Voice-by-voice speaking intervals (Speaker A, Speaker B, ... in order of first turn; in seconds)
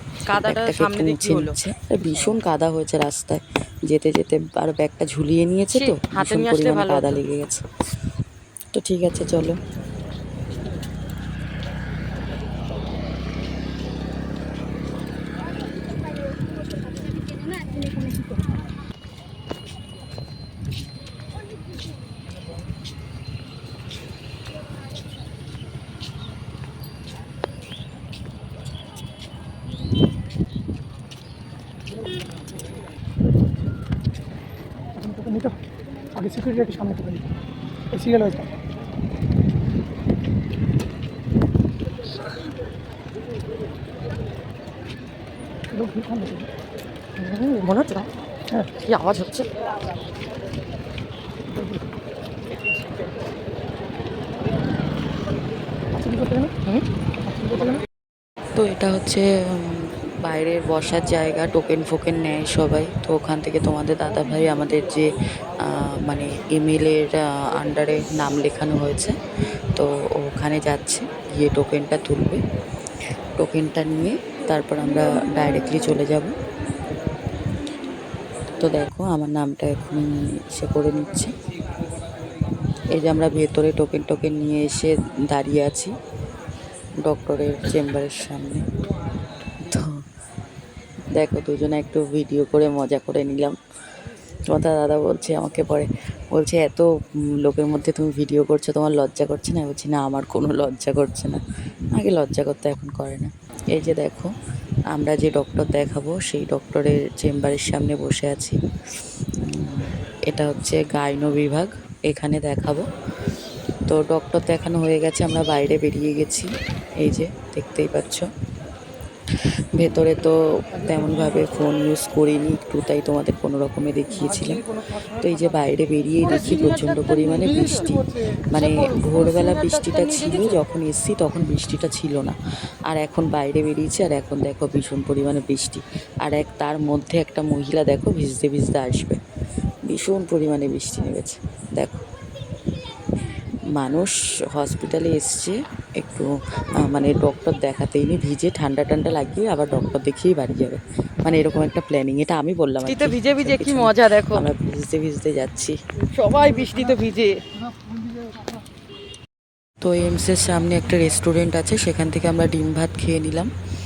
Speaker A: 0.3-1.6, 5.7-7.2, 47.2-48.1, 48.8-49.5, 126.3-127.0, 128.5-130.6, 152.9-154.5, 156.1-157.4
Speaker B: 0.3-7.7, 8.7-9.6, 58.5-69.2, 69.8-72.4, 73.4-76.3, 78.6-81.3, 82.9-85.9, 87.0-88.6, 89.7-90.0, 91.2-93.6, 94.5-96.9, 97.4-101.4, 101.9-104.3, 104.9-108.6, 109.4-112.9, 113.9-116.5, 117.0-118.3, 119.8-139.2, 139.9-142.1, 143.8-146.3, 146.8-155.8, 159.8-163.5
Speaker C: 35.0-35.6, 36.1-37.3, 37.9-38.5, 45.7-46.5, 51.5-51.8, 55.9-56.5, 57.3-57.8